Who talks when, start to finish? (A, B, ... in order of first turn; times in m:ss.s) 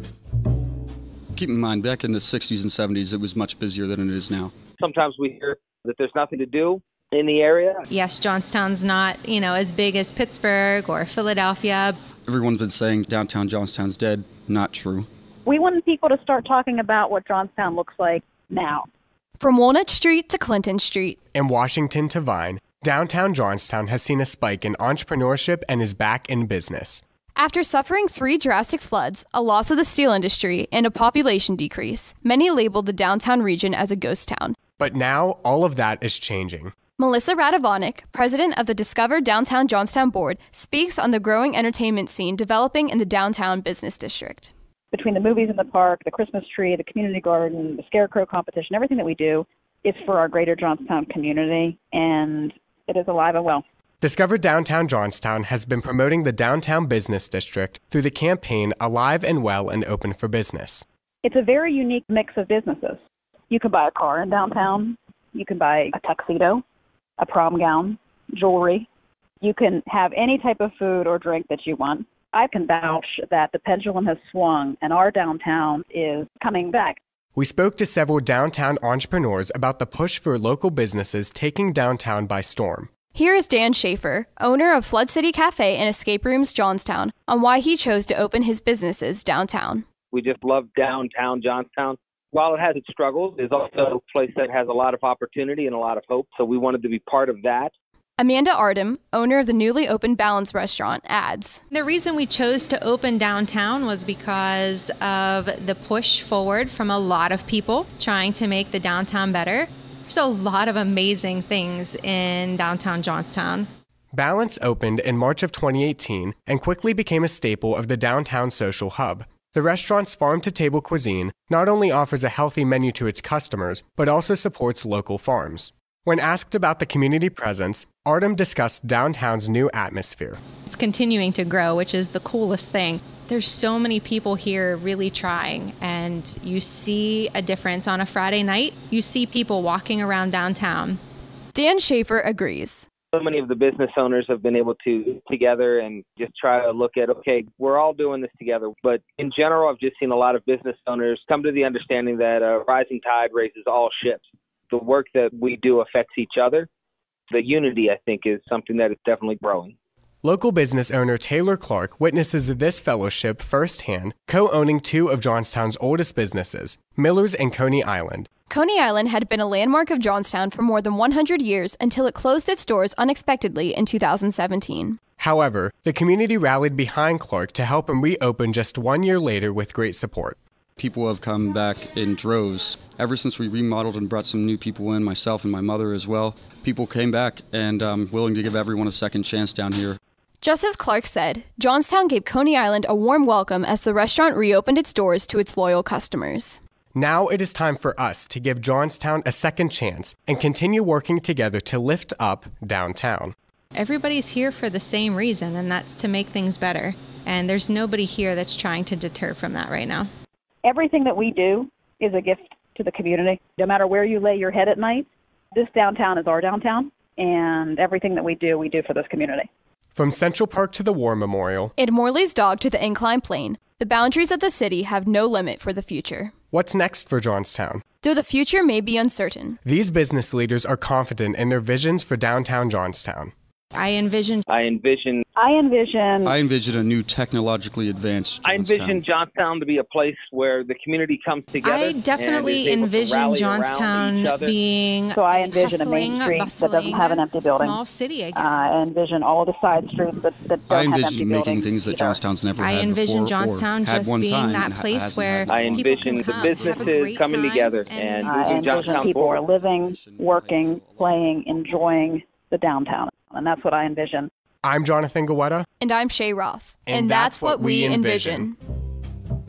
0:01.4-0:04.5 A
0:04.8-0:07.8 B
0:07.9-0:12.0 C
0:12.2-0:15.1 A
0:15.5-0:18.9 D
0:19.4-0:21.2 E
0:21.3-0:27.0 F
0:27.4-0:34.6 E
0:34.8-0:36.7 F
0:37.0-0:44.5 E
0:44.9-0:53.6 D
0:54.0-1:00.8 F
1:01.2-1:03.0 D
1:03.5-1:06.6 D
1:07.2-1:08.9 D
1:09.4-1:17.0 D
1:17.4-1:22.9 F
1:23.1-1:29.8 E
1:30.1-1:37.7 B
1:38.2-1:41.6 E
1:41.7-1:53.7 C
1:54.1-2:10.4 F
2:10.7-2:21.0 C
2:21.5-2:22.9 E
2:23.1-2:36.7 B
2:37.3-2:39.7 B
2:40.2-2:48.3 F
2:48.5-2:55.0 E
2:55.2-3:00.4 F
3:00.8-3:10.0 A
3:10.4-3:16.6 E
3:17.0-3:23.3 F
3:23.8-3:30.1 C
3:30.6-3:39.5 D
3:40.0-3:41.7 F
3:41.8-3:46.3 E
3:46.5-3:47.8 F
3:48.0-3:49.6 E
3:49.6-3:53.3 F
3:53.8-3:54.4 C
3:54.5-3:55.2 B
3:55.4-3:56.4 D
3:56.2-3:59.0 A
3:58.4-4:04.6 B
4:01.6-4:08.8 C
4:05.1-4:07.8 D
4:08.3-4:12.2 D
4:10.7-4:17.1 A
4:12.6-4:18.8 C
4:15.5-4:19.4 B
4:18.2-4:24.3 D
4:18.7-4:21.3 A
4:24.6-4:25.7 F
4:25.8-4:28.6 E
4:26.9-4:28.5 F